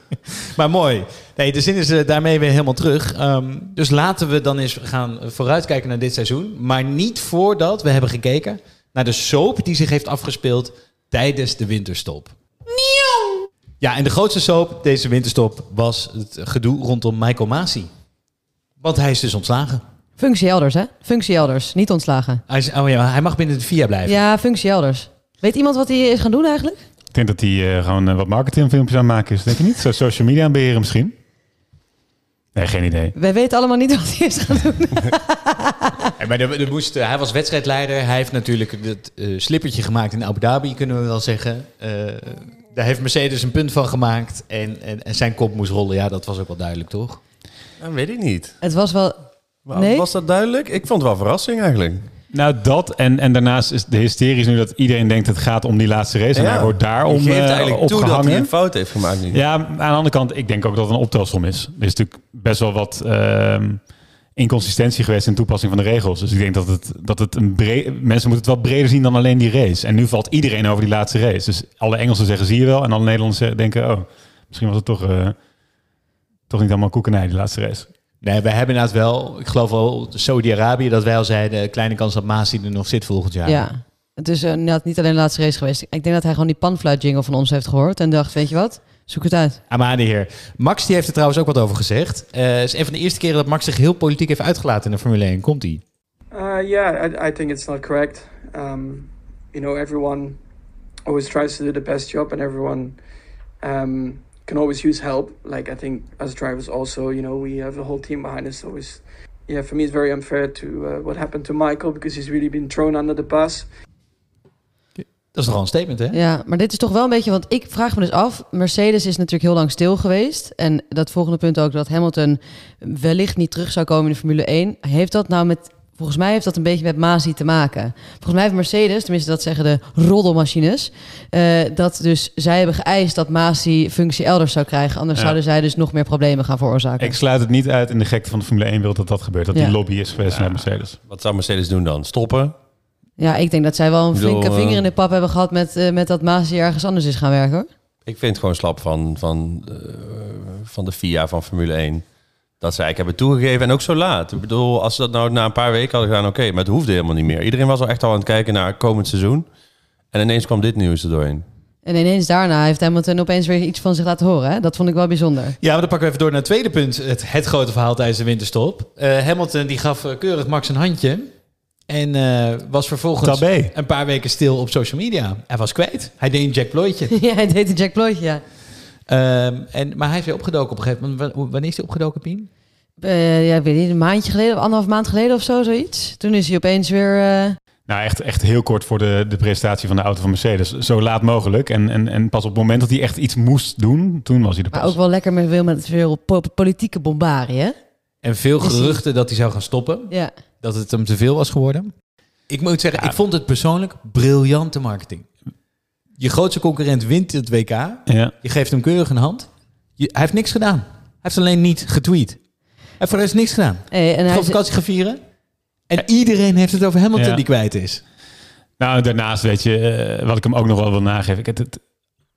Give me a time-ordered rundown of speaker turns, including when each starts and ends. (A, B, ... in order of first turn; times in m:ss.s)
0:00.6-0:12.3 A
0:13.8-0:17.9 A
0:18.8-0:19.8 A
0:20.2-0:22.4 B
0:22.5-0:24.2 A
0:24.1-0:26.8 B
0:27.1-0:31.1 C
0:32.6-0:33.1 C
0:33.2-0:36.1 B
0:36.2-0:47.2 A
0:47.8-0:48.6 D
0:48.6-0:49.2 B
0:49.7-0:52.0 D
0:49.7-0:50.0 B
0:52.3-0:58.5 C
0:56.4-0:59.4 D
0:59.3-1:03.8 C
1:04.4-1:15.4 C
1:16.5-1:17.9 C
1:18.2-1:23.7 A
1:23.4-1:29.6 B
1:29.7-1:35.8 A
1:36.3-1:40.4 E
1:41.1-1:43.0 E
1:43.6-1:53.7 E
1:55.0-1:56.2 A
1:56.1-2:17.2 B
2:17.0-2:21.0 C
2:20.3-2:22.6 D
2:23.2-2:27.7 B
2:24.1-2:24.8 D
2:28.1-2:32.0 D
2:32.6-2:39.5 D
2:40.1-2:41.4 D
2:41.8-2:45.6 B
2:45.6-2:51.3 A
2:51.9-2:57.1 A
2:53.2-2:53.7 C
2:57.1-2:58.4 B
2:59.1-3:02.5 A
3:03.0-3:07.6 B
3:07.9-3:15.0 C
3:14.7-3:17.8 B
3:18.2-3:21.9 A
3:18.6-3:19.0 B
3:22.5-3:25.3 A
3:26.2-3:32.4 A
3:28.1-3:28.3 C
3:33.0-3:35.2 A
3:33.9-3:34.6 B
3:35.9-3:38.0 A
3:37.2-3:37.4 C
3:38.8-3:41.8 C